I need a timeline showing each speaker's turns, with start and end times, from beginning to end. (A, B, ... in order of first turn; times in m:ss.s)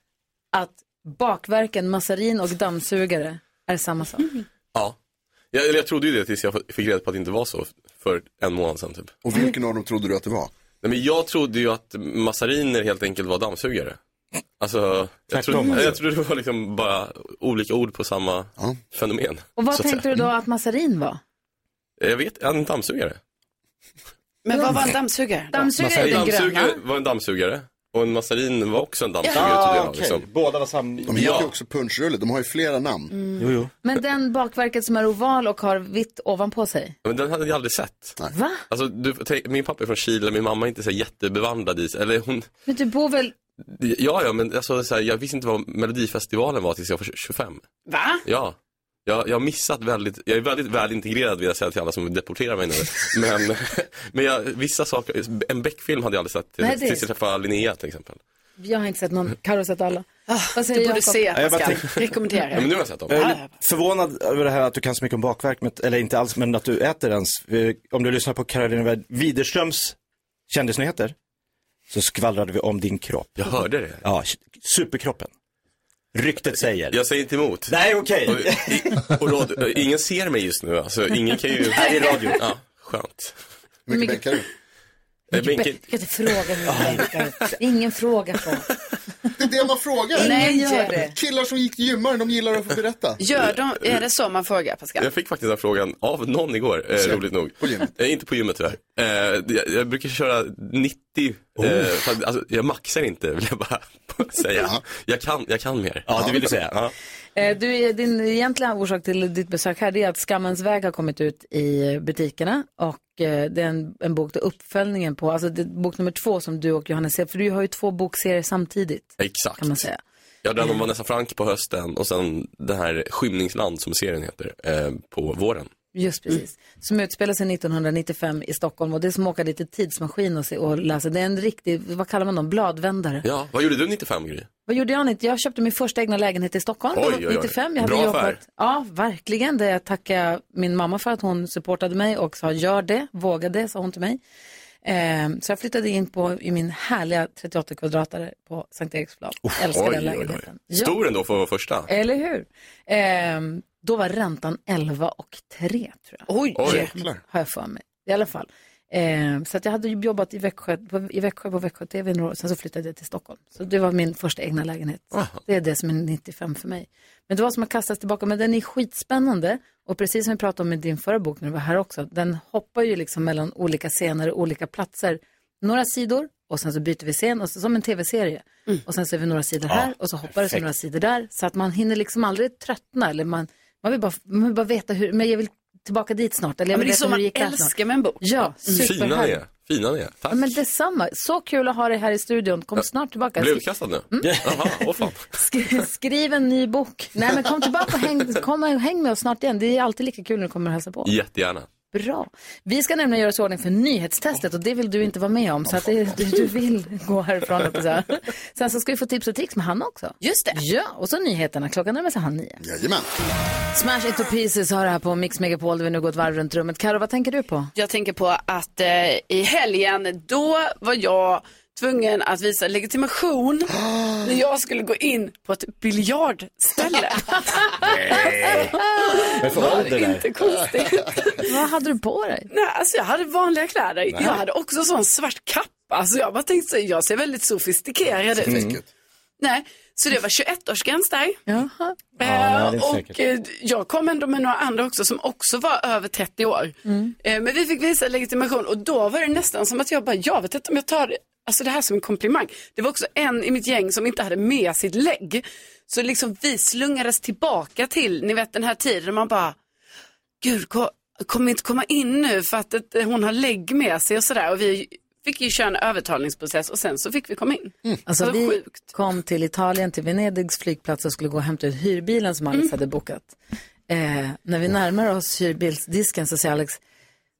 0:00.5-0:04.4 A
0:05.5-0:09.2 B
0:09.2-0:10.5 C
0:10.8-0:14.0 B
0:14.6-0:20.1 B
0:15.3-0:16.0 D
0:15.6-0:15.8 E
0:19.6-0:21.2 A
0:22.0-0:23.2 B
0:24.4-0:25.7 E
0:24.5-0:24.9 A
0:25.5-0:26.8 A
0:25.8-0:26.3 D
0:26.0-0:30.3 B
0:29.3-0:31.5 D
0:31.1-0:33.2 C
0:31.1-0:31.5 B
0:33.4-0:33.7 D
0:33.8-0:37.0 A
0:37.0-0:42.5 B
0:38.3-0:38.6 A
0:42.7-0:43.3 A
0:43.6-0:47.7 B
0:47.9-0:48.2 E
0:48.2-0:58.2 B
0:56.6-0:57.1 A
0:58.6-1:01.3 A
1:00.3-1:03.5 E
1:01.3-1:02.1 D
1:02.5-1:03.2 B
1:03.1-1:10.0 D
1:10.5-1:11.1 D
1:11.9-1:15.3 D
1:13.4-1:14.0 B
1:16.2-1:17.0 D
1:16.9-1:17.8 B
1:17.7-1:19.0 D
1:18.3-1:23.4 B
1:21.7-1:22.4 D
1:23.9-1:24.5 C
1:23.9-1:24.3 A
1:25.3-1:25.9 B
1:25.3-1:28.7 A
1:26.7-1:27.1 D
1:29.4-1:33.2 C
1:30.2-1:31.2 A
1:30.2-1:31.0 E
1:33.2-1:35.1 E
1:33.4-1:34.0 B
1:35.0-1:46.9 B
1:37.0-1:37.9 C
1:41.6-1:41.9 D
1:44.6-1:44.8 C
1:46.1-1:46.8 D
1:47.4-2:00.0 A
1:59.2-1:59.9 B
2:00.4-2:05.7 B
2:06.0-2:13.2 A
2:13.2-2:14.5 B
2:14.7-2:24.2 A
2:16.9-2:18.4 B
2:24.8-2:31.0 A
2:29.7-2:31.9 B
2:31.9-3:09.4 A
2:36.3-2:36.9 E
2:36.6-2:36.9 B
2:36.8-2:37.2 C
2:45.1-2:45.4 B
2:59.7-3:00.6 D
3:06.7-3:08.9 E
3:08.7-3:10.6 B
3:10.3-3:14.6 A
3:13.4-3:15.2 B
3:15.3-3:21.1 A
3:21.0-3:21.7 B
3:21.9-3:32.6 A
3:25.9-3:26.2 C
3:30.2-3:30.6 E
3:32.6-3:33.1 C
3:33.7-3:37.7 A
3:37.8-3:51.4 E
3:43.7-3:44.4 C
3:47.8-3:48.8 D
3:49.4-3:50.3 D
3:51.4-3:52.5 A
3:52.5-3:58.7 E
3:54.1-3:54.4 D
3:58.4-3:58.8 C
3:58.4-3:58.8 D
3:59.4-4:01.4 E
4:01.5-4:02.0 A
4:02.2-4:19.6 E
4:02.2-4:03.2 D
4:06.9-4:07.1 A
4:20.4-4:28.9 E
4:28.1-4:33.3 A
4:33.9-4:36.8 A